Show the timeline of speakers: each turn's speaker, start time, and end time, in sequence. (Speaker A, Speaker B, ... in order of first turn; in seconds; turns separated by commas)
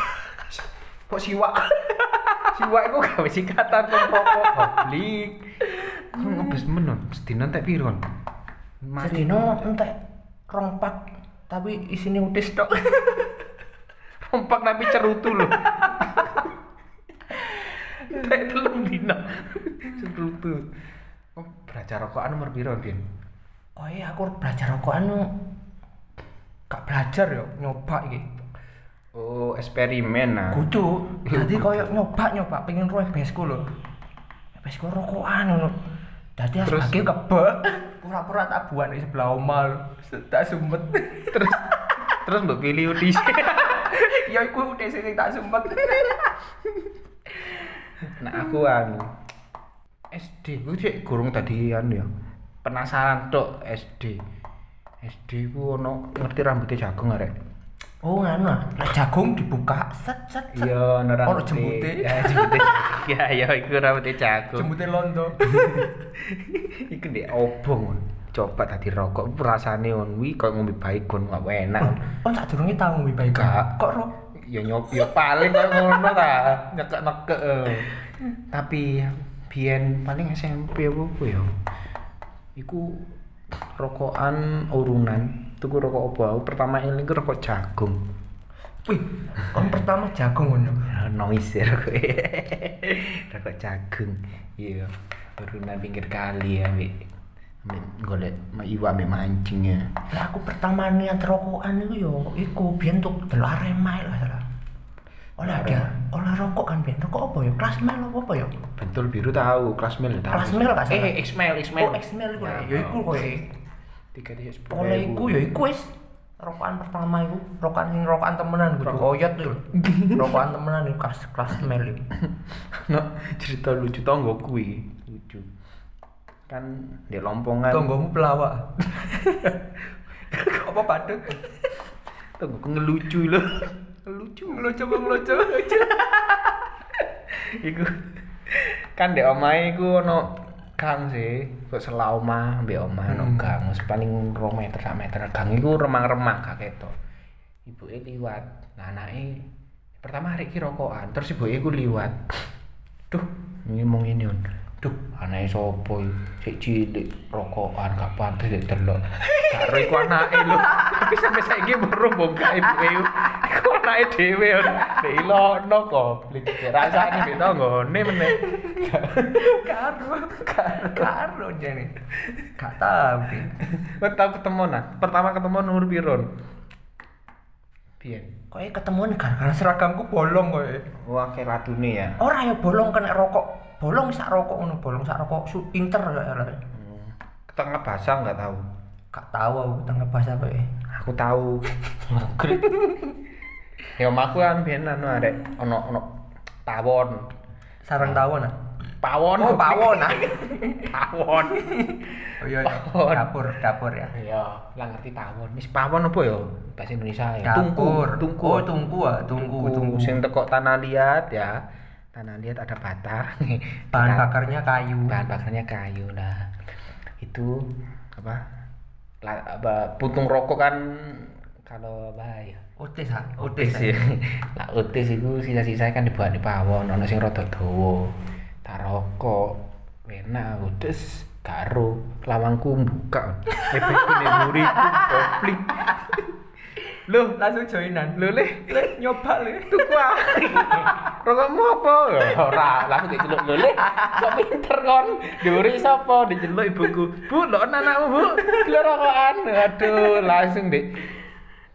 Speaker A: 1.1-8.0, Speaker A: 8.8-9.6, Speaker B: 9.0-9.9, Speaker B: 10.5-13.4, Speaker A: 14.2-16.4, Speaker B: 15.8-16.4, Speaker A: 17.3-20.6, Speaker A: 21.4-23.0, Speaker B: 23.8-25.3, Speaker B: 26.7-28.4, Speaker A: 29.1-30.7, Speaker B: 30.5-33.6, Speaker A: 31.2-31.9, Speaker B: 34.5-35.8, Speaker B: 36.4-41.4, Speaker A: 36.6-37.1, Speaker A: 41.3-44.1, Speaker B: 43.7-46.3, Speaker A: 48.2-49.1, Speaker A: 50.1-52.1, Speaker A: 52.6-54.2, Speaker A: 55.0-57.3, Speaker B: 58.0-60.7, Speaker A: 60.5-64.7, Speaker B: 61.2-62.8, Speaker B: 64.5-65.4, Speaker A: 65.4-72.0, Speaker B: 71.8-74.1, Speaker A: 73.3-73.7, Speaker A: 74.4-77.9, Speaker A: 78.5-81.5, Speaker A: 82.5-83.1, Speaker A: 83.6-88.0, Speaker B: 88.8-90.9, Speaker A: 90.9-97.0, Speaker A: 97.6-99.9, Speaker B: 100.1-104.4, Speaker B: 105.4-108.5, Speaker A: 105.4-105.9, Speaker A: 108.8-113.4, Speaker B: 110.3-111.2, Speaker B: 111.8-113.4, Speaker A: 114.1-115.5, Speaker B: 114.7-122.0, Speaker A: 119.8-120.4, Speaker A: 122.7-125.5, Speaker A: 126.5-127.9, Speaker B: 127.7-129.5, Speaker B: 130.3-131.4, Speaker A: 132.4-134.9, Speaker B: 134.4-136.4, Speaker A: 137.3-146.9, Speaker B: 143.1-143.4, Speaker A: 147.7-149.5, Speaker A: 150.0-152.2, Speaker A: 153.1-169.8, Speaker B: 159.4-160.9, Speaker B: 166.9-167.3, Speaker B: 168.2-168.7, Speaker B: 169.3-173.5, Speaker A: 170.4-171.1, Speaker A: 173.6-176.3, Speaker A: 178.0-178.3, Speaker B: 178.5-180.9, Speaker A: 180.9-182.2, Speaker B: 182.2-186.6, Speaker A: 186.7-188.7, Speaker B: 189.1-190.7, Speaker A: 190.9-192.9, Speaker A: 193.9-196.1, Speaker A: 196.7-197.3, Speaker B: 197.8-198.5, Speaker A: 199.0-201.6, Speaker B: 199.4-200.8, Speaker B: 201.5-204.1, Speaker A: 202.6-203.3, Speaker A: 204.1-208.7, Speaker B: 207.4-210.2, Speaker A: 209.3-214.3, Speaker B: 213.9-215.2, Speaker A: 215.1-216.5, Speaker A: 217.2-218.4, Speaker A: 219.2-222.6, Speaker B: 222.8-224.0, Speaker A: 223.4-236.3, Speaker B: 233.6-236.1, Speaker A: 237.0-237.4, Speaker B: 237.3-241.0, Speaker A: 238.1-238.9, Speaker A: 239.7-251.2